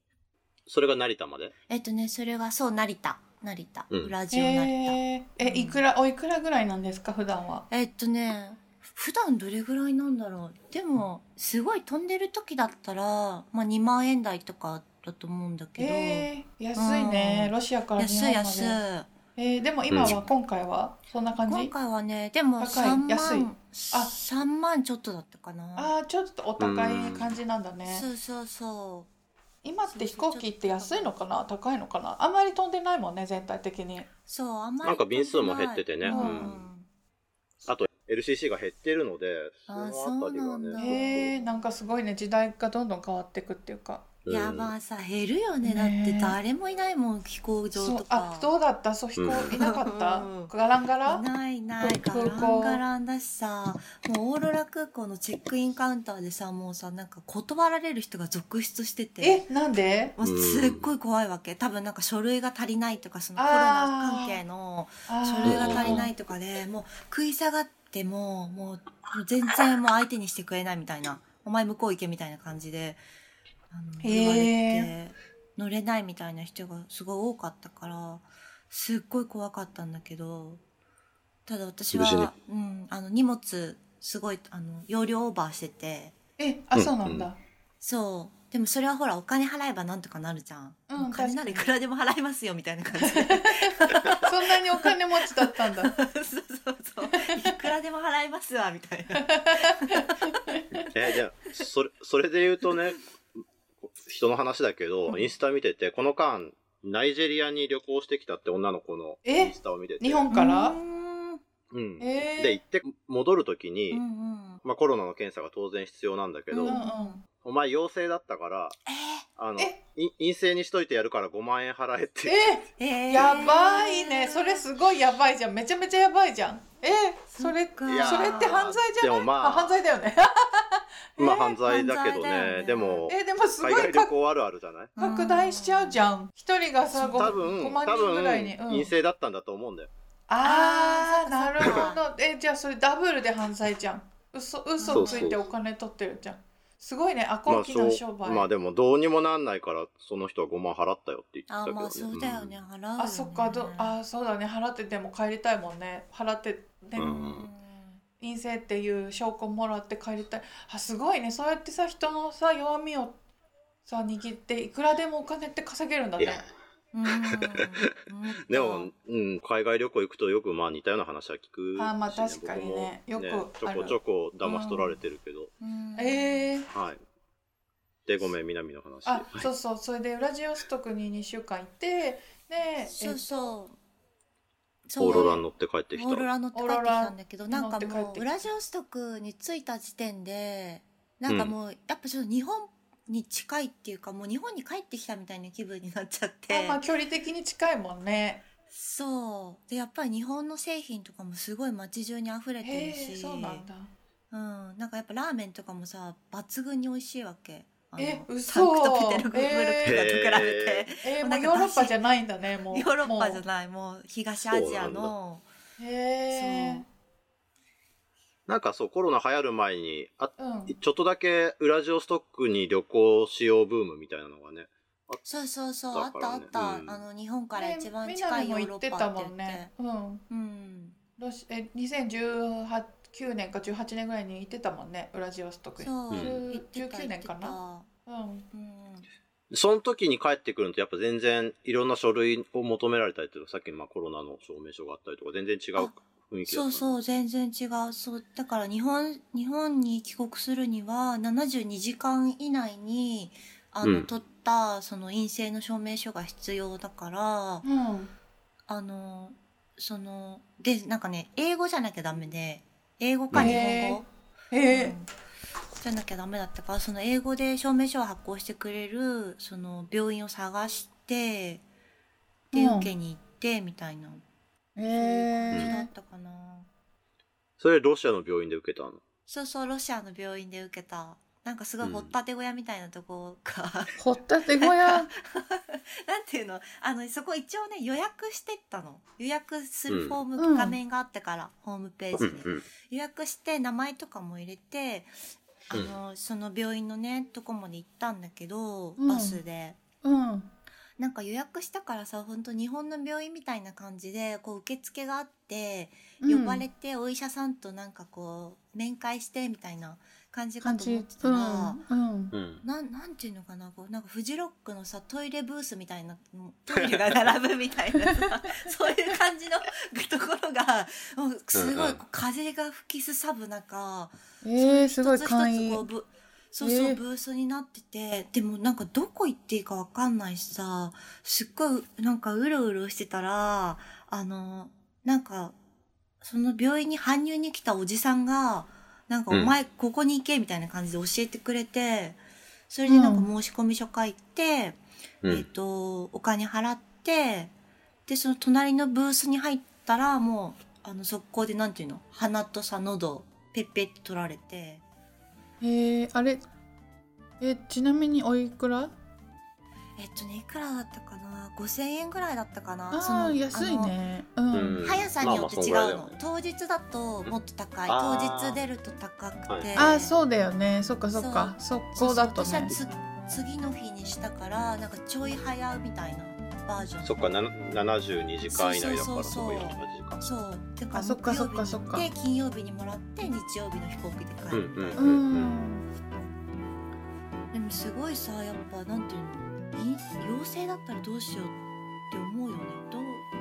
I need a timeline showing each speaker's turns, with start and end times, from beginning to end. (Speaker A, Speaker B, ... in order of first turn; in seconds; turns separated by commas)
Speaker A: 0.7-1.5, Speaker B: 1.7-5.8, Speaker C: 4.3-7.7, Speaker B: 7.7-19.1, Speaker C: 15.8-18.8, Speaker C: 19.4-21.7, Speaker A: 19.9-20.2, Speaker B: 21.5-25.9, Speaker C: 22.6-24.1, Speaker C: 25.8-28.1, Speaker A: 26.6-27.3, Speaker B: 27.9-29.1, Speaker C: 29.6-34.1, Speaker B: 29.9-31.1, Speaker B: 34.3-36.9, Speaker A: 34.8-36.7, Speaker C: 36.1-36.5, Speaker A: 37.6-41.3, Speaker B: 39.7-41.5, Speaker C: 40.8-44.1, Speaker A: 44.2-44.7, Speaker B: 44.3-48.5, Speaker C: 45.6-46.4, Speaker C: 47.7-52.8, Speaker A: 49.1-49.5, Speaker B: 49.3-50.5, Speaker B: 51.0-59.5, Speaker C: 59.2-60.1, Speaker B: 60.2-73.0, Speaker A: 60.2-60.9, Speaker C: 63.4-64.4, Speaker C: 65.1-66.0, Speaker A: 65.4-66.1, Speaker B: 73.7-80.6, Speaker C: 74.0-74.9, Speaker B: 81.5-86.1, Speaker A: 81.9-82.3, Speaker C: 86.4-87.4, Speaker A: 86.7-87.3, Speaker B: 87.8-100.8, Speaker C: 90.9-91.7, Speaker C: 93.0-96.0, Speaker C: 97.1-97.6, Speaker C: 99.1-100.8, Speaker A: 100.9-103.0, Speaker A: 103.8-110.3, Speaker C: 109.2-110.8, Speaker B: 110.3-111.4, Speaker A: 111.7-114.0, Speaker C: 112.0-112.6, Speaker B: 113.9-114.6, Speaker A: 114.6-116.8, Speaker B: 116.5-117.2, Speaker C: 116.6-117.2, Speaker A: 117.4-118.8, Speaker B: 118.9-119.2, Speaker A: 119.4-122.4, Speaker C: 122.2-131.6, Speaker B: 122.8-124.7, Speaker A: 123.1-123.4, Speaker B: 127.3-128.6, Speaker A: 127.8-129.8, Speaker A: 131.2-134.9, Speaker B: 131.6-133.1, Speaker C: 133.1-134.1, Speaker B: 135.0-136.1, Speaker C: 135.0-138.9, Speaker B: 136.9-137.5, Speaker A: 137.2-139.9, Speaker C: 140.3-148.5, Speaker B: 140.4-142.1, Speaker B: 144.8-145.4, Speaker A: 144.9-145.5, Speaker A: 147.5-152.6, Speaker B: 151.5-154.0, Speaker C: 153.0-157.2, Speaker A: 157.0-157.5, Speaker B: 157.0-158.0, Speaker C: 158.2-163.2, Speaker C: 163.8-166.4, Speaker A: 166.2-166.4, Speaker B: 166.9-168.9, Speaker A: 168.5-175.5, Speaker C: 171.8-175.0, Speaker B: 175.6-176.5, Speaker C: 176.0-176.7, Speaker A: 176.7-177.0, Speaker A: 178.1-179.5, Speaker C: 179.1-183.5, Speaker B: 182.8-183.8, Speaker B: 184.9-196.8, Speaker A: 185.0-186.3, Speaker C: 186.5-188.3, Speaker A: 191.3-191.5, Speaker C: 196.5-198.4, Speaker B: 198.7-203.7, Speaker C: 202.6-203.9, Speaker B: 204.3-211.9, Speaker C: 208.0-210.0, Speaker A: 209.8-210.9, Speaker C: 211.0-213.4, Speaker B: 212.7-215.5, Speaker A: 214.4-215.1, Speaker C: 215.8-216.9, Speaker B: 216.3-216.8, Speaker A: 218.5-225.4, Speaker C: 220.4-220.8, Speaker B: 225.2-229.7, Speaker A: 225.9-227.0, Speaker C: 227.5-230.2, Speaker B: 230.3-231.0, Speaker C: 231.2-238.5, Speaker B: 235.8-237.9, Speaker A: 236.1-236.4, Speaker B: 238.5-239.1, Speaker A: 239.5-247.0, Speaker B: 246.4-257.6, Speaker A: 253.8-254.1, Speaker C: 257.6-258.1, Speaker B: 258.7-264.1, Speaker A: 263.3-263.6, Speaker C: 263.4-265.0, Speaker B: 264.6-265.1, Speaker B: 265.8-271.6, Speaker B: 272.5-274.2, Speaker C: 272.5-272.9, Speaker C: 274.8-275.9, Speaker B: 274.8-276.7, Speaker A: 277.6-279.0, Speaker B: 279.3-284.0, Speaker A: 281.8-282.1, Speaker C: 284.0-285.1, Speaker B: 284.5-295.1, Speaker A: 289.9-290.2, Speaker C: 290.4-290.8, Speaker A: 292.1-292.6, Speaker B: 295.7-299.8, Speaker C: 299.0-299.4, Speaker C: 300.0-300.5, Speaker B: 301.0-311.8, Speaker C: 306.2-306.6, Speaker C: 310.6-312.4, Speaker A: 312.3-312.6, Speaker B: 312.6-335.6, Speaker A: 316.7-317.3, Speaker A: 321.5-322.0, Speaker C: 324.4-325.9, Speaker C: 326.6-327.0, Speaker B: 336.2-347.5, Speaker A: 339.3-339.6, Speaker C: 342.9-343.3, Speaker B: 348.1-354.8, Speaker C: 355.6-356.5, Speaker C: 357.4-358.9, Speaker B: 360.0-364.0, Speaker C: 362.9-364.8, Speaker A: 364.5-366.1, Speaker B: 364.8-370.1, Speaker A: 367.2-368.6, Speaker A: 369.5-369.7, Speaker C: 369.8-372.8, Speaker B: 371.1-377.3, Speaker A: 377.0-380.2, Speaker B: 378.5-385.1, Speaker C: 380.9-382.1, Speaker A: 384.5-385.6, Speaker C: 385.0-385.9, Speaker B: 387.5-391.6, Speaker B: 392.1-393.3